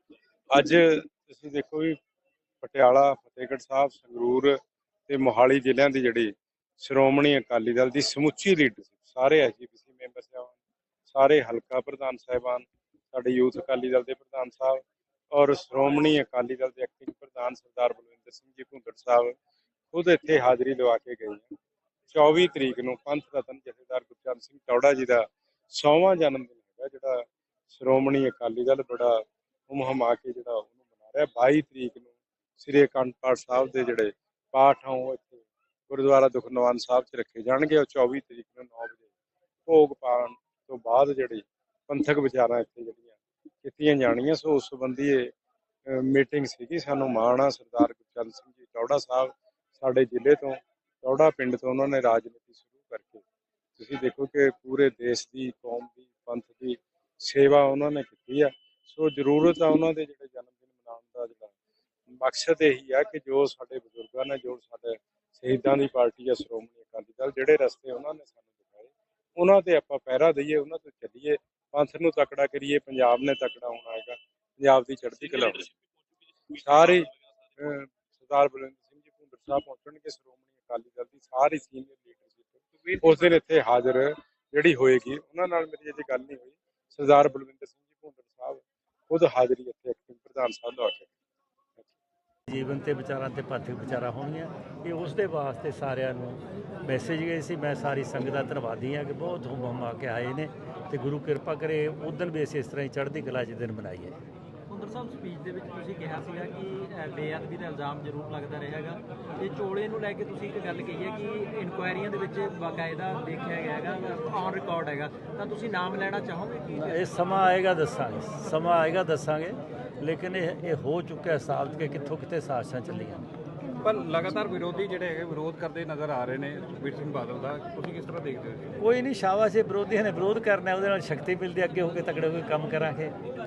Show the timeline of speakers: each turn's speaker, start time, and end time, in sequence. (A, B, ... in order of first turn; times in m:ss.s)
0:00.5-0:02.0 A
0:02.6-0:04.5 A
0:05.1-0:10.5 A
0:11.1-0:19.3 A
0:19.9-0:21.5 A
0:22.1-0:29.2 A
0:29.7-0:39.0 A
0:39.7-0:45.3 A
0:45.9-0:53.2 A
0:53.8-1:01.5 A
1:02.1-1:15.7 A
1:16.5-1:31.1 A
1:32.5-1:44.2 B
1:44.7-1:57.0 C
1:56.8-2:03.3 B
2:03.8-2:08.8 D
2:08.8-2:13.2 B